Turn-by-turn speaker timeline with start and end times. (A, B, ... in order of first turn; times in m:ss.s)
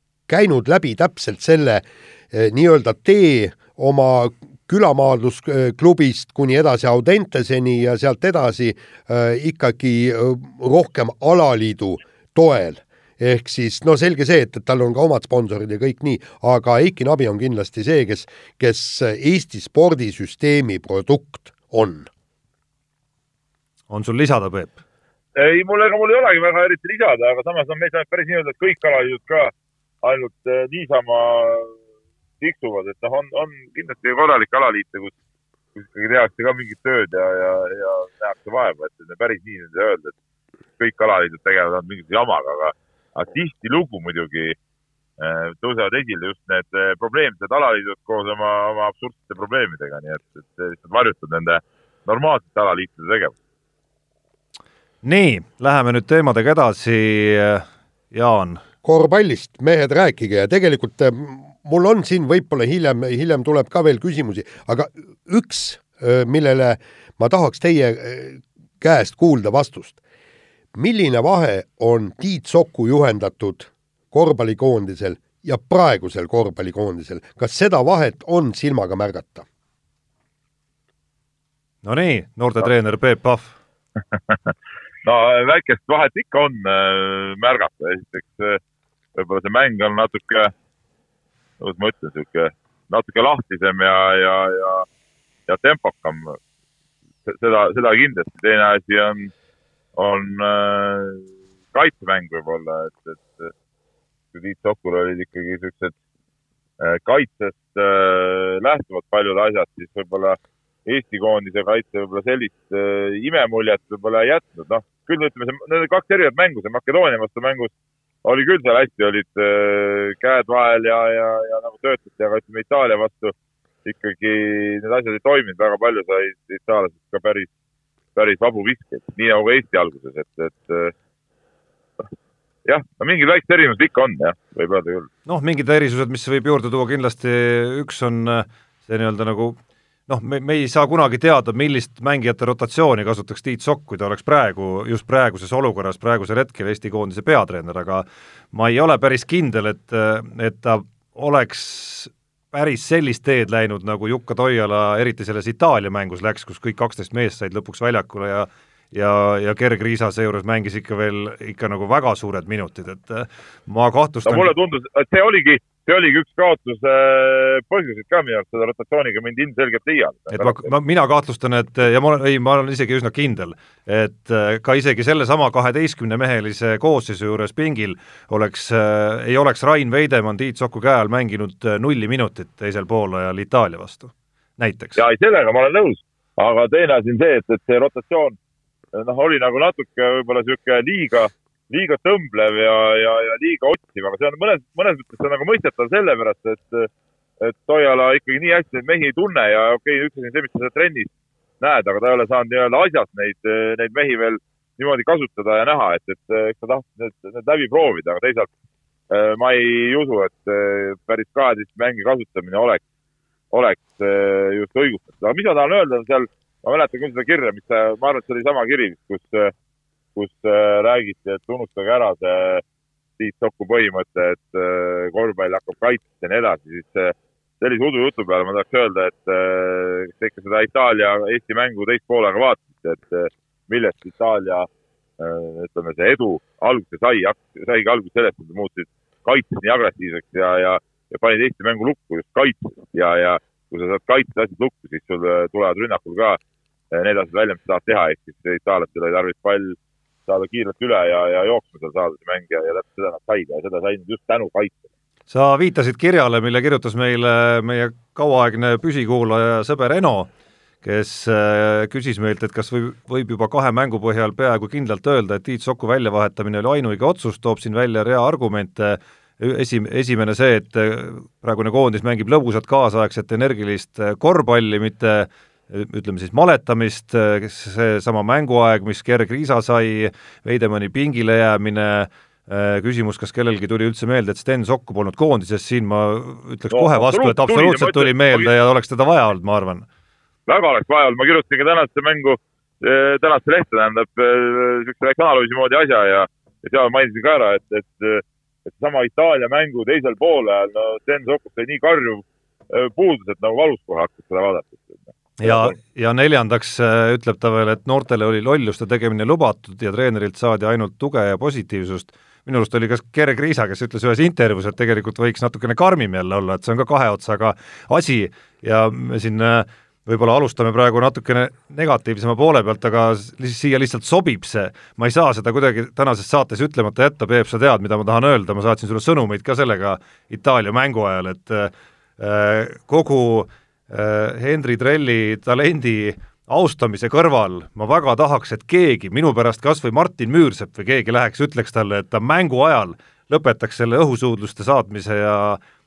0:00.3-0:22.1 A
0:23.9-0:24.8 B
0:25.4-0:29.5 C
0:30.0-0:31.7 C
0:32.4-0:35.1 C
0:35.8-0:40.1 C
0:40.8-0:44.6 C
0:45.2-0:53.4 C
0:55.0-0:58.6 B
0:58.8-1:10.0 A
1:10.8-1:19.5 A
1:21.8-1:23.6 B
1:25.0-1:28.6 C
1:29.2-1:30.5 C
1:31.6-1:34.9 C
1:35.5-1:36.4 C
1:37.3-1:39.3 C
1:40.0-1:43.5 C
1:44.3-1:46.0 C
1:46.8-1:57.7 C
1:58.2-2:03.3 C
2:03.8-2:07.5 C
2:08.2-2:10.9 C
2:12.7-2:15.1 C
2:15.3-2:19.6 B
2:20.1-2:44.5 B
2:44.3-2:50.7 C
2:50.3-3:05.0 B
3:05.0-3:08.4 C
3:08.9-3:16.9 C
3:17.4-3:28.5 C
3:29.1-3:32.8 C
3:33.5-3:39.5 C
3:40.2-3:42.6 C
3:43.2-3:54.7 C
3:55.2-4:06.4 C
4:06.9-4:14.8 C
4:15.3-4:20.3 B
4:20.8-4:49.9 B
4:46.7-4:48.5 C
4:50.5-5:05.8 C
5:05.4-5:45.6 B